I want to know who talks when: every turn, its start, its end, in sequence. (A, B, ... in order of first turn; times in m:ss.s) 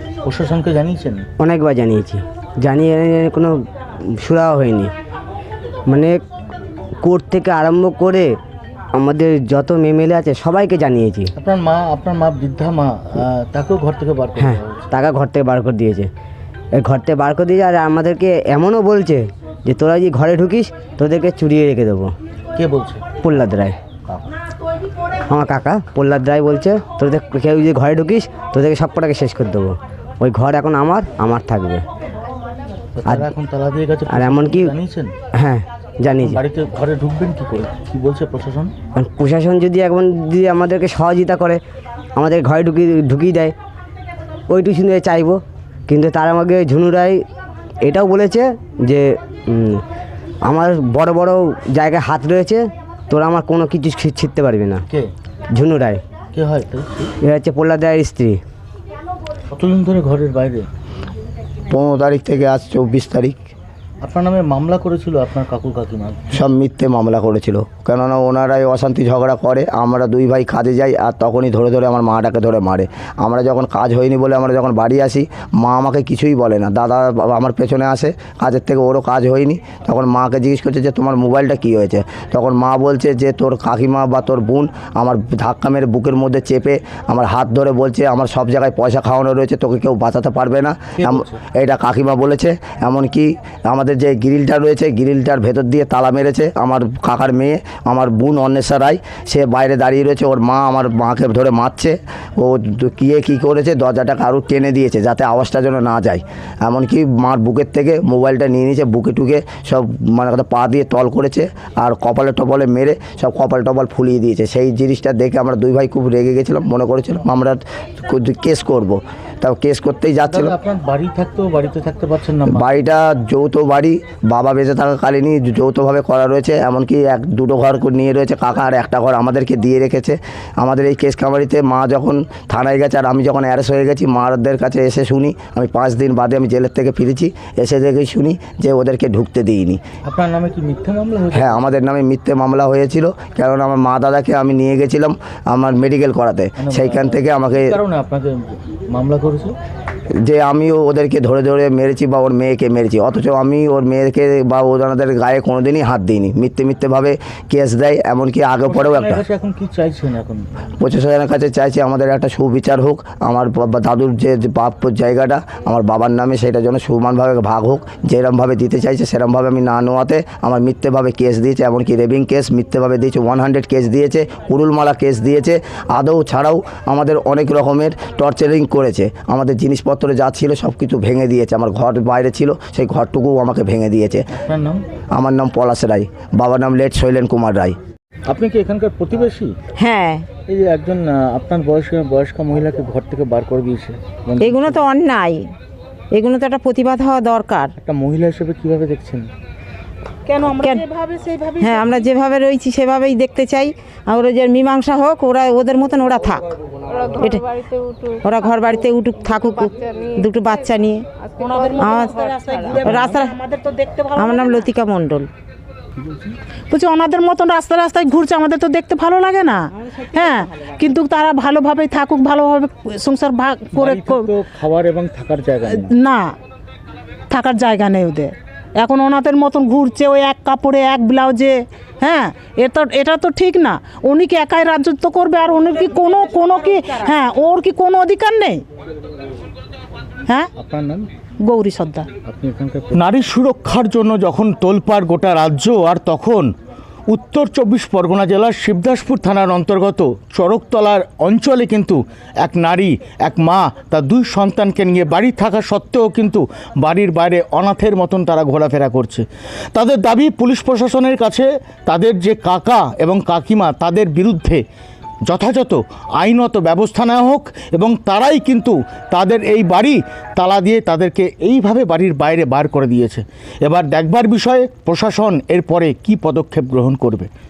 0:00.2-0:01.3 A
0:01.4-0:03.6 B
0:04.2-0:04.9 B
0:05.9-0:06.2 B
0:07.0-0:08.4 B
0:09.0-0:11.3 B
0:11.4-0:14.9 A
0:14.4-0:16.1 B
0:16.8-0:22.1 B
0:22.6-0:23.0 A
0:23.2-0:23.8 B
0:25.3-0:31.8 B
0:33.0-0:35.1 A
0:34.1-0:34.7 B
0:35.4-0:36.4 B
0:36.1-0:38.7 A
0:39.0-0:41.6 B
0:42.2-0:43.5 B
0:44.5-0:47.2 B
0:47.8-0:49.8 B
0:50.5-0:54.8 B
0:55.5-0:56.0 B
0:56.3-0:57.1 A
0:57.2-0:58.4 B
0:59.5-1:00.7 A
1:01.7-1:03.4 C
1:04.0-1:06.2 A
1:06.3-2:00.5 C
1:31.0-1:31.4 A
2:00.2-2:02.7 A
2:02.5-2:19.8 C
2:20.0-2:21.7 A
2:21.4-2:27.7 C
2:26.6-2:29.6 A
2:30.2-2:39.2 C
2:38.7-2:40.5 A
2:40.8-3:04.2 C
3:04.4-3:04.8 A
3:05.1-3:07.8 C
3:08.3-3:09.5 A
3:09.8-3:10.3 D
3:10.5-3:14.9 A
3:14.4-3:15.5 D
3:16.1-3:17.7 D
3:17.8-3:19.3 A
3:20.3-3:22.0 E
3:20.6-3:20.9 D
3:21.6-3:26.4 D
3:27.1-3:27.5 D
3:28.2-3:31.1 D
3:31.4-3:34.7 E
3:31.8-3:33.4 D
3:34.2-3:35.3 D
3:36.0-3:36.3 A
3:36.7-3:44.3 E
3:43.7-3:45.9 A
3:45.7-3:46.3 E
3:47.3-3:58.6 E
4:00.6-4:01.1 A
4:01.4-4:02.1 E
4:02.2-4:06.5 A
4:07.1-4:24.6 A
4:25.3-4:37.3 A